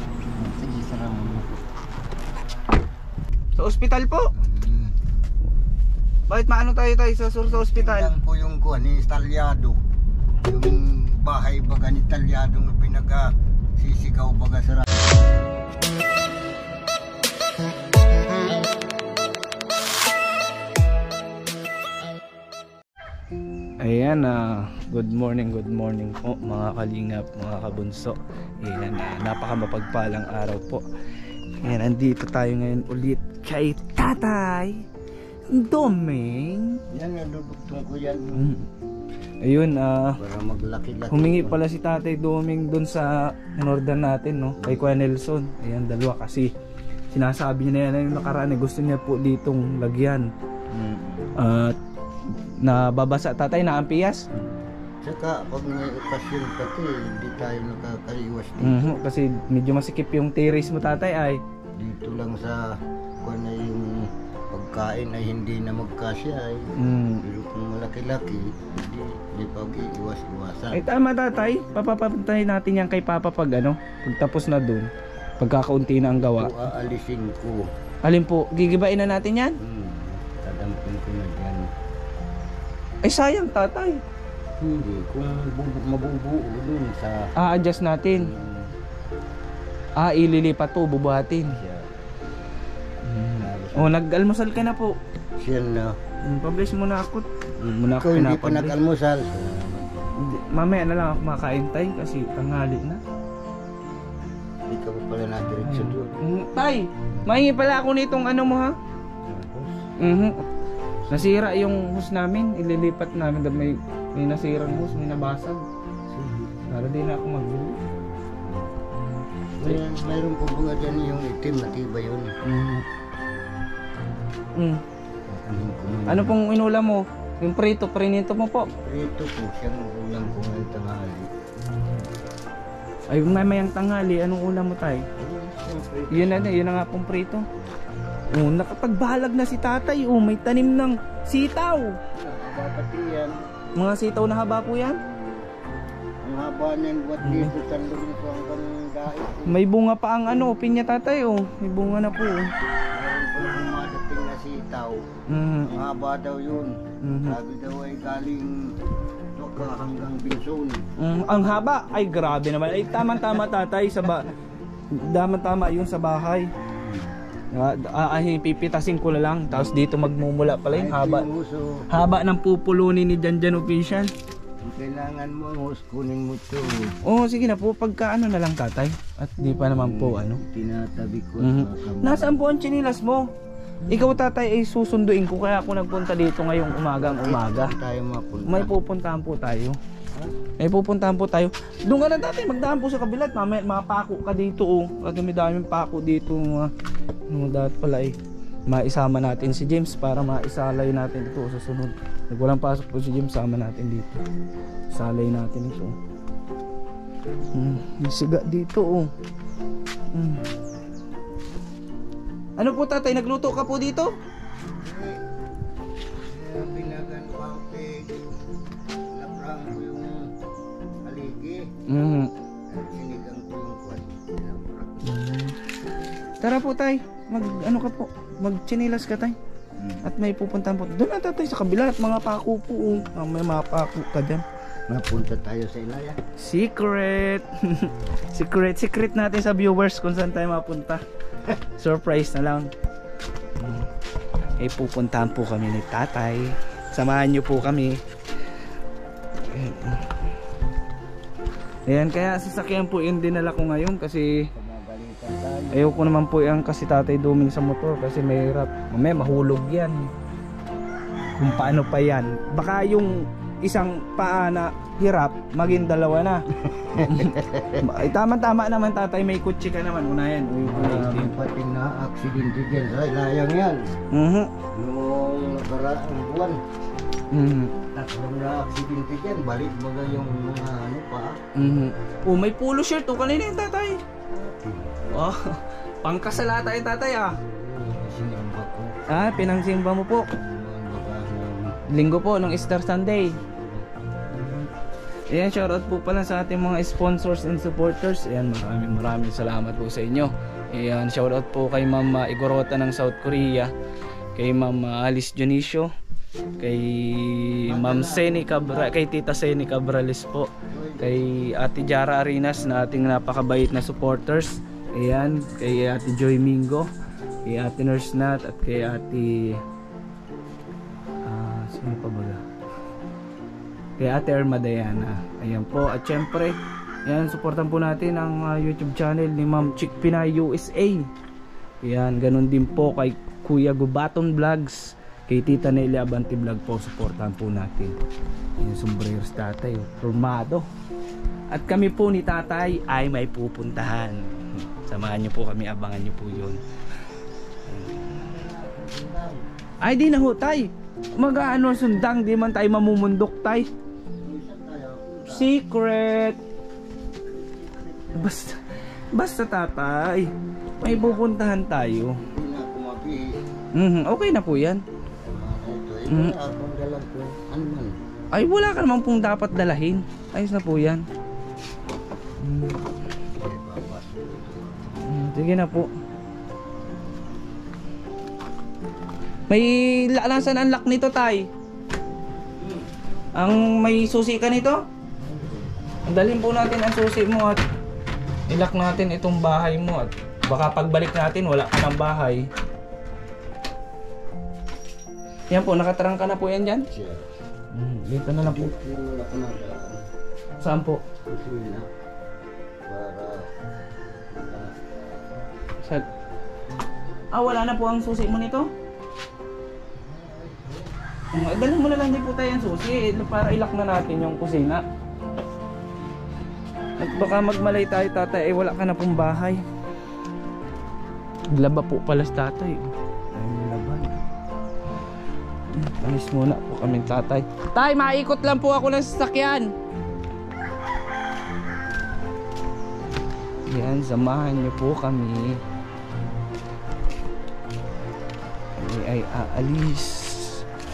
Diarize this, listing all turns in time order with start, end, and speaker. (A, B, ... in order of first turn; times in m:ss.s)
0:00.4-0:01.6 A
0:03.6-0:04.3 B
0:04.3-0:04.9 A
0:06.3-0:08.1 B
0:07.4-0:09.8 A
0:10.4-0:15.0 A
0:23.8-0:30.8 B
0:31.6-0:34.8 B
0:35.5-0:36.8 B
0:36.9-0:38.4 A
0:38.3-0:38.7 B
0:39.4-0:40.2 B
0:40.2-0:41.6 A
0:41.1-0:46.5 B
0:44.6-0:44.9 A
0:47.1-0:50.3 B
0:50.7-0:51.3 A
0:51.4-0:51.8 B
0:52.3-0:54.2 B
0:55.0-0:59.0 A
0:58.6-1:01.4 B
1:01.8-1:02.7 A
1:03.2-1:06.7 A
1:06.8-1:07.2 B
1:07.2-1:10.8 A
1:10.7-1:16.6 B
1:16.2-1:17.6 A
1:18.0-1:19.6 B
1:19.6-1:21.6 A
1:23.0-1:24.0 B
1:24.6-1:27.2 A
1:27.4-1:28.3 B
1:28.1-1:28.7 A
1:30.0-1:31.6 B
1:31.5-1:31.9 A
1:33.0-1:34.9 B
1:33.4-1:33.9 A
1:35.4-1:36.0 A
1:36.2-1:38.8 B
1:37.6-1:39.9 A
1:40.2-1:43.0 B
1:44.7-1:46.2 A
1:45.6-1:48.7 B
1:49.2-1:49.8 A
1:50.0-1:50.4 B
1:51.1-1:55.6 B
1:56.1-1:56.6 A
1:56.7-1:57.8 B
1:58.4-1:58.7 A
1:59.1-1:59.8 B
1:59.6-2:02.4 A
2:02.4-2:02.8 B
2:04.6-2:04.8 B
2:05.3-2:06.4 A
2:06.1-2:08.7 B
2:08.6-2:11.3 A
2:11.6-2:12.0 B
2:13.1-2:15.1 B
2:15.2-2:16.6 A
2:16.1-2:17.5 B
2:18.3-2:22.0 B
2:22.2-2:23.3 A
2:23.8-2:25.0 B
2:24.8-2:25.5 A
2:26.2-2:29.6 A
2:27.2-2:27.5 B
2:29.5-2:32.5 B
2:32.9-2:35.0 A
2:35.3-2:35.7 B
2:35.6-2:38.8 A
2:37.0-2:37.4 B
2:39.4-2:40.8 A
2:41.0-2:44.3 B
2:44.9-2:46.5 B
2:46.6-2:47.1 A
2:47.5-2:51.3 B
2:49.5-2:49.8 A
2:50.7-2:51.9 A
2:51.9-2:54.1 B
2:54.6-2:57.0 A
2:57.0-3:00.4 B
2:59.7-3:02.4 A
3:01.4-3:03.2 B
3:03.9-3:07.7 B
3:07.0-3:08.7 A
3:08.5-3:09.8 B
3:10.6-3:16.7 B
3:17.3-3:18.2 B
3:18.7-3:24.2 B
3:24.9-3:26.0 B
3:27.5-3:29.1 B
3:30.1-3:30.4 B
3:32.6-3:34.1 B
3:34.8-3:35.2 A
3:36.3-3:38.2 A
3:39.1-3:40.3 A
3:41.0-3:41.6 A
3:41.9-3:42.3 B
3:42.7-3:45.3 A
3:45.0-3:45.6 B
3:46.4-3:49.4 B
3:49.8-3:50.0 A
3:50.0-3:54.4 B
3:54.9-3:56.2 A
3:56.4-4:01.0 B
4:01.8-4:02.7 B
4:04.6-4:08.0 B
4:09.5-4:10.2 B
4:11.9-4:14.5 B
4:14.6-4:16.1 A
4:15.7-4:20.1 B
4:21.4-4:21.8 A
4:21.4-4:26.4 B
4:26.7-4:27.9 A
4:27.0-4:31.4 B
4:30.6-4:33.8 A
4:34.1-4:34.5 B
4:34.7-4:36.6 A
4:37.3-4:37.8 B
4:37.9-4:41.4 A
4:41.6-4:44.0 B
4:44.3-4:44.9 A
4:45.1-4:47.4 B
4:47.4-4:48.9 A
4:49.1-4:50.3 B
4:50.4-4:51.8 A
4:51.9-4:53.4 B
4:53.3-4:53.9 A
4:54.3-4:54.7 B
4:55.3-5:03.7 B
5:04.4-5:05.9 B
5:06.6-5:16.9 B
5:07.7-5:09.0 A
5:10.7-5:11.3 A
5:17.4-5:19.6 B
5:21.2-5:22.4 B
5:24.0-5:31.1 B
5:31.8-5:38.0 B
5:38.6-5:40.6 B
5:41.5-5:46.6 B
5:47.8-5:49.4 A
5:49.8-5:53.7 B
5:54.2-5:55.5 A
5:55.3-5:56.4 B
5:58.1-5:58.6 B
5:59.1-6:00.3 B
6:00.8-6:02.2 B
6:00.8-6:01.4 A
6:02.2-6:03.4 A
6:03.8-6:04.8 B
6:05.2-6:07.9 A
6:06.1-6:06.4 B
6:08.3-6:11.0 B
6:12.4-6:12.8 B
6:13.4-6:15.0 A
6:15.0-6:15.9 B
6:19.5-6:21.5 B
6:23.4-6:24.8 B
6:26.1-6:27.6 B
6:28.5-6:32.5 B
6:35.5-6:36.9 B
6:36.9-6:37.2 A
6:37.7-6:38.7 B
6:38.4-6:40.0 A
6:40.6-6:41.0 B
6:41.2-6:41.9 A
6:42.9-6:43.4 A
6:44.4-6:45.1 A
6:47.3-6:48.7 B
6:50.1-6:50.9 A
6:51.3-6:54.8 B
6:57.0-6:59.6 B
7:01.5-7:04.1 B
7:05.7-7:09.7 B
7:13.7-7:15.6 B
7:18.8-7:20.6 B